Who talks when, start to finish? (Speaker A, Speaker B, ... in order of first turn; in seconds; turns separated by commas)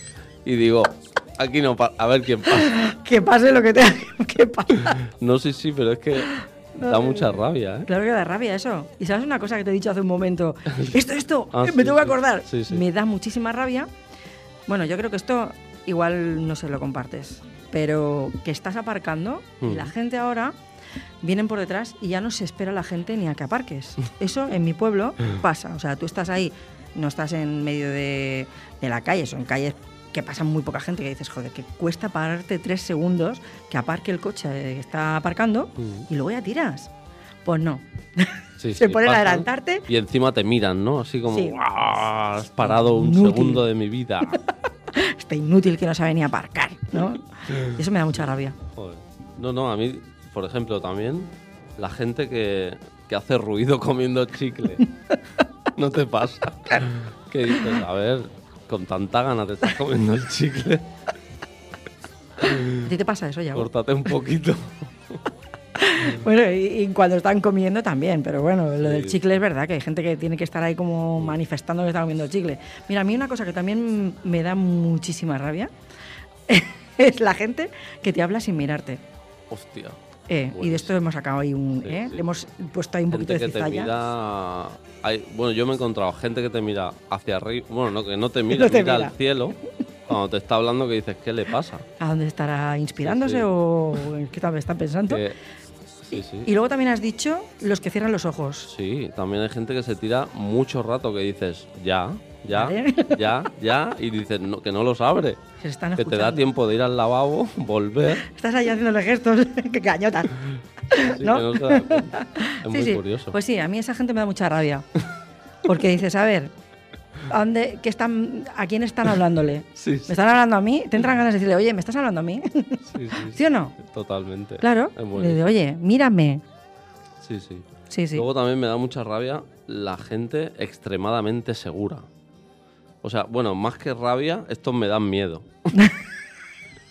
Speaker A: 0.4-2.7, Speaker B: 2.5-5.0, Speaker A: 5.0-7.9, Speaker B: 6.3-13.9, Speaker A: 11.5-12.8, Speaker B: 14.7-20.5, Speaker A: 19.6-19.9, Speaker B: 21.2-36.9, Speaker A: 35.8-36.1, Speaker B: 37.4-39.9, Speaker A: 38.6-44.4, Speaker B: 41.3-41.6, Speaker B: 42.6-43.6, Speaker B: 44.3-48.6, Speaker A: 48.7-54.9, Speaker A: 55.7-60.9, Speaker A: 62.4-62.8, Speaker B: 62.7-63.7, Speaker A: 63.5-64.8, Speaker B: 65.8-75.7, Speaker A: 68.8-69.3, Speaker B: 76.5-79.0, Speaker A: 79.5-80.0, Speaker B: 80.3-83.9, Speaker A: 80.5-81.0, Speaker A: 81.8-82.2, Speaker A: 83.1-91.8, Speaker B: 88.5-89.1, Speaker B: 92.0-95.2, Speaker A: 93.0-93.5, Speaker A: 95.1-95.4, Speaker A: 96.1-96.5, Speaker B: 96.1-98.7, Speaker A: 98.7-105.4, Speaker B: 102.5-103.5, Speaker B: 105.6-106.5, Speaker A: 106.0-108.2, Speaker B: 108.1-114.8, Speaker A: 111.0-113.4, Speaker B: 115.6-116.5, Speaker B: 117.2-123.8, Speaker A: 119.8-120.2, Speaker A: 122.9-125.5, Speaker B: 124.6-126.4, Speaker A: 127.2-132.0, Speaker B: 127.9-128.2, Speaker A: 133.0-135.5